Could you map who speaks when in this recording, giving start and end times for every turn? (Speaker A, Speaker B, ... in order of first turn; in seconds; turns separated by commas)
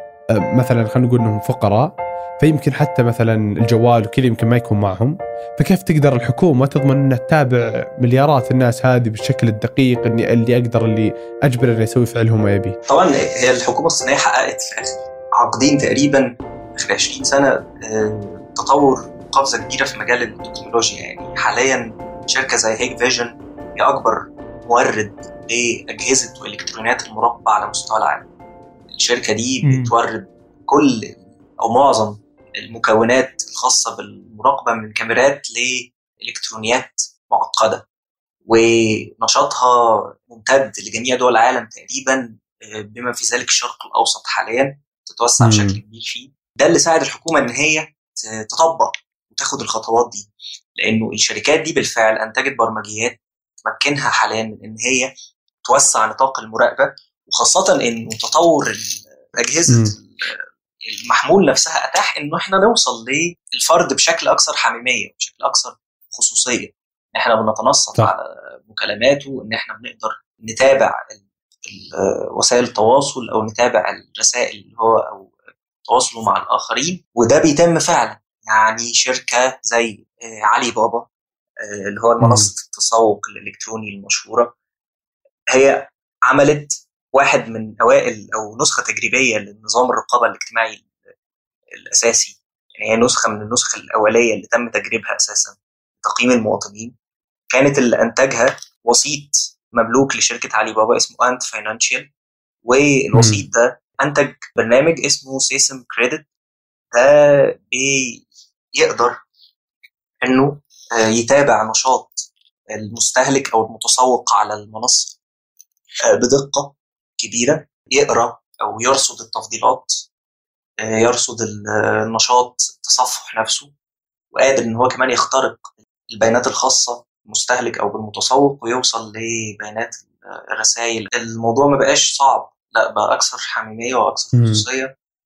Speaker A: 0.6-12.8, Speaker B: 12.9-28.3, Speaker B: 28.9-37.9, Speaker A: 29.6-29.9, Speaker B: 38.5-55.1, Speaker A: 45.4-45.8, Speaker B: 55.6-75.3, Speaker A: 59.7-59.9, Speaker B: 75.9-81.1, Speaker B: 81.6-84.5, Speaker A: 82.2-82.5, Speaker B: 85.5-90.9, Speaker B: 91.8-96.9, Speaker B: 97.5-102.1, Speaker B: 102.6-106.3, Speaker A: 103.1-103.5, Speaker B: 107.0-109.2, Speaker B: 110.2-115.2, Speaker B: 116.1-120.0, Speaker B: 120.8-123.7, Speaker B: 124.3-134.9, Speaker A: 134.3-134.6